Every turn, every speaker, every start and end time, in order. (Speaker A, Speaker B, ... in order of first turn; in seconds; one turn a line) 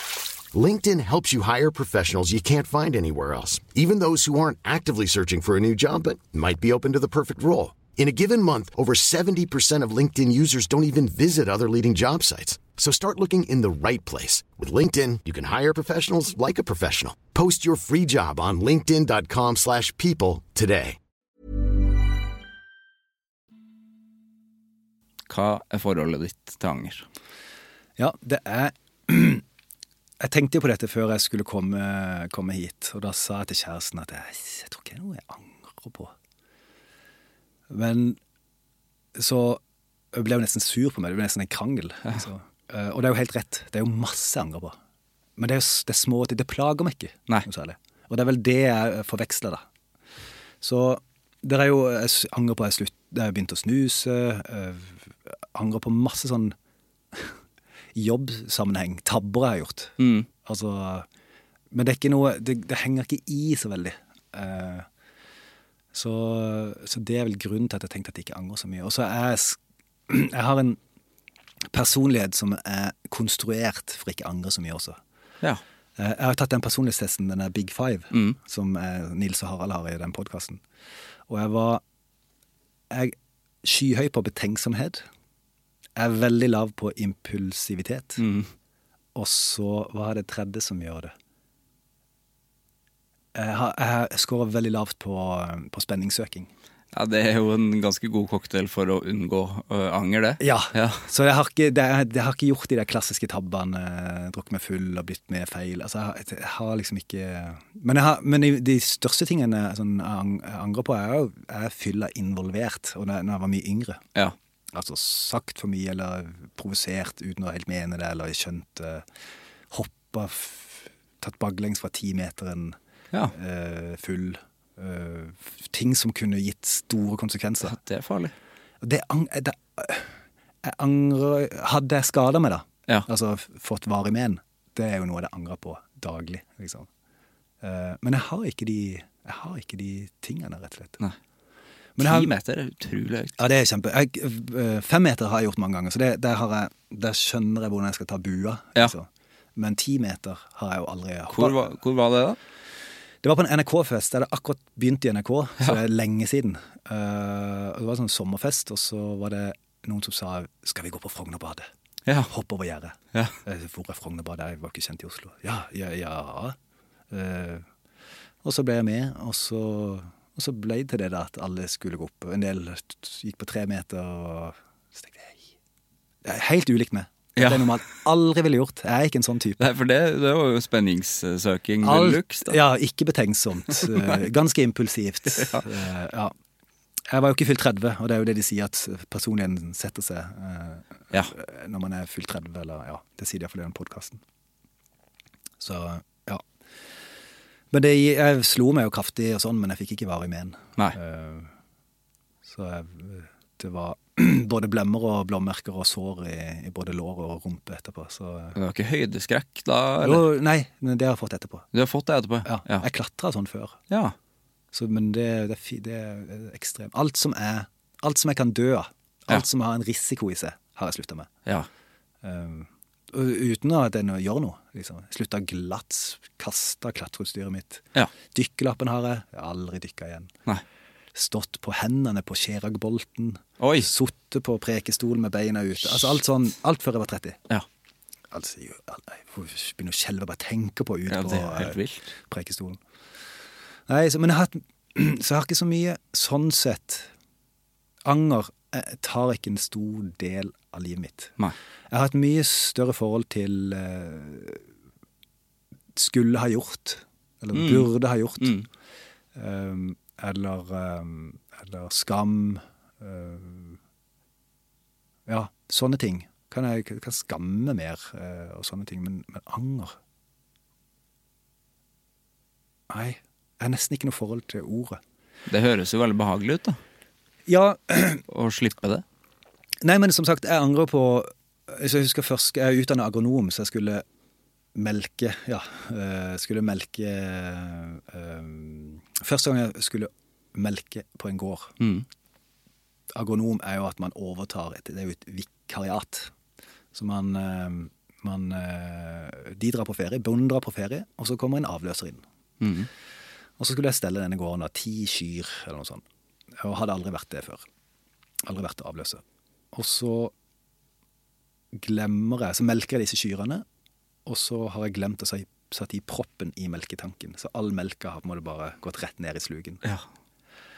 Speaker A: 0.5-21.0
Speaker B: 25.3-27.1
Speaker C: 28.0-29.4
Speaker C: 30.2-36.1
Speaker C: 37.7-38.2
Speaker C: 39.1-39.6
Speaker C: 40.1-44.8
Speaker C: 45.4-49.6
Speaker C: 50.6-56.5
Speaker C: 58.0-61.1
Speaker B: 60.0-60.3
Speaker C: 61.7-64.9
Speaker C: 65.9-70.8
Speaker C: 71.7-75.0
Speaker C: 76.0-80.6
Speaker B: 78.1-78.4
Speaker C: 81.3-81.8
Speaker C: 82.9-85.0
Speaker C: 86.0-88.2
Speaker B: 88.2-88.5
Speaker C: 89.2-91.1
Speaker C: 93.3-96.5
Speaker B: 96.9-101.1
Speaker C: 100.4-114.0
Speaker C: 114.7-119.0
Speaker C: 119.7-122.8
Speaker C: 123.3-127.8
Speaker B: 127.6-128.3
Speaker C: 128.8-136.9
Speaker C: 137.6-141.0
Speaker C: 142.0-142.3
Speaker B: 142.0-143.4
Speaker C: 143.4-151.7
Speaker B: 151.3-152.4
Speaker C: 153.2-161.7
Speaker B: 162.1-162.3
Speaker C: 162.3-166.6
Speaker C: 167.1-167.7
Speaker C: 168.4-175.4
Speaker C: 176.2-179.6
Speaker B: 177.4-177.8
Speaker B: 179.6-182.6
Speaker C: 181.8-186.3
Speaker B: 183.8-184.2
Speaker B: 185.4-185.7
Speaker C: 187.1-194.2
Speaker C: 195.6-196.4
Speaker C: 197.7-201.5
Speaker C: 202.4-208.6
Speaker B: 208.6-210.3
Speaker C: 210.0-211.7
Speaker B: 211.7-212.9
Speaker C: 212.4-213.8
Speaker B: 213.9-214.2
Speaker C: 214.7-221.3
Speaker C: 222.2-230.3
Speaker C: 231.2-237.4
Speaker B: 233.6-233.9
Speaker C: 238.3-242.8
Speaker B: 241.1-242.1
Speaker C: 243.9-247.1
Speaker C: 248.1-251.3
Speaker C: 251.9-254.6
Speaker C: 255.9-258.6
Speaker B: 257.5-258.7
Speaker C: 259.4-263.8
Speaker C: 265.3-270.0
Speaker C: 272.9-275.0
Speaker B: 275.5-276.8
Speaker C: 277.5-278.2
Speaker B: 278.3-279.0
Speaker C: 279.8-284.0
Speaker C: 284.8-291.8
Speaker B: 291.8-292.1
Speaker C: 293.1-296.3
Speaker C: 296.9-302.2
Speaker B: 302.6-302.9
Speaker C: 303.6-306.0
Speaker C: 306.6-307.6
Speaker C: 308.5-309.2
Speaker C: 309.7-310.3
Speaker C: 311.7-313.6
Speaker C: 314.3-319.8